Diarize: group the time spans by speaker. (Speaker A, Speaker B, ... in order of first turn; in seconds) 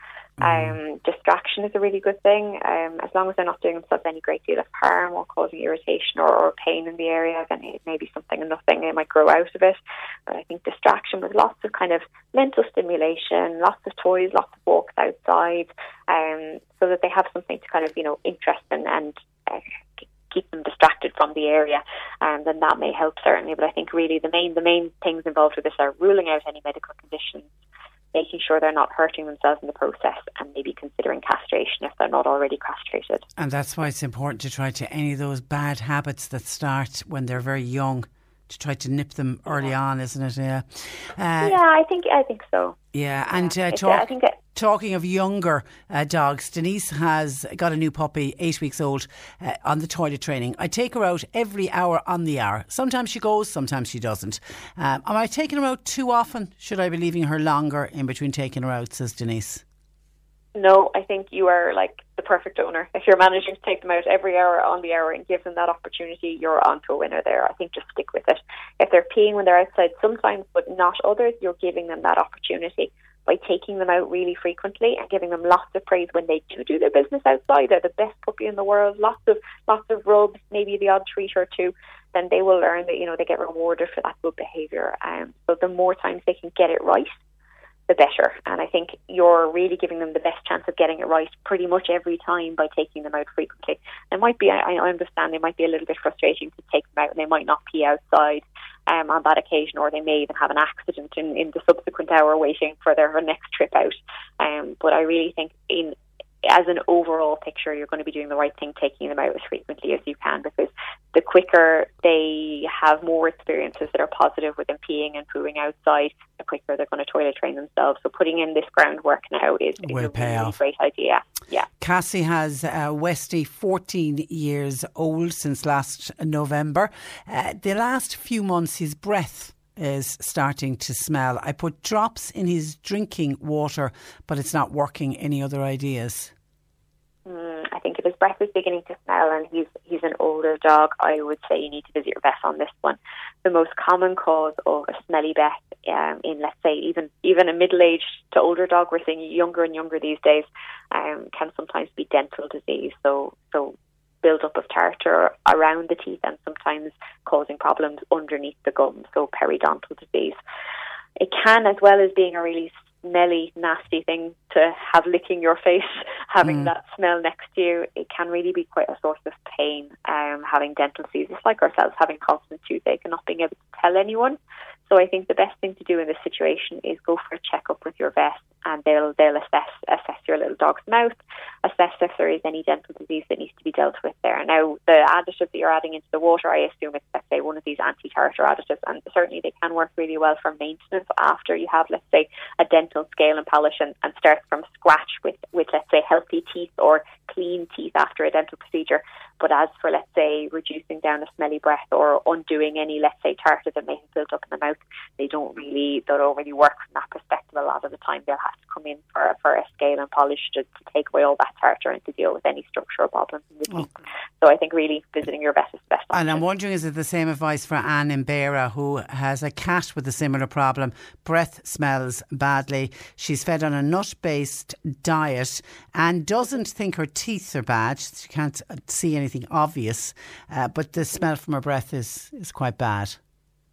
Speaker A: 0.4-0.8, 33.4-41.6, 42.9-59.6, 119.8-120.5, 121.8-136.3, 166.4-166.7, 216.1-233.2
Speaker B: 0.4-19.6, 20.3-27.5, 28.1-33.2, 41.4-42.8, 43.4-44.4, 60.5-87.1, 87.9-121.7, 137.2-160.4, 161.2-216.4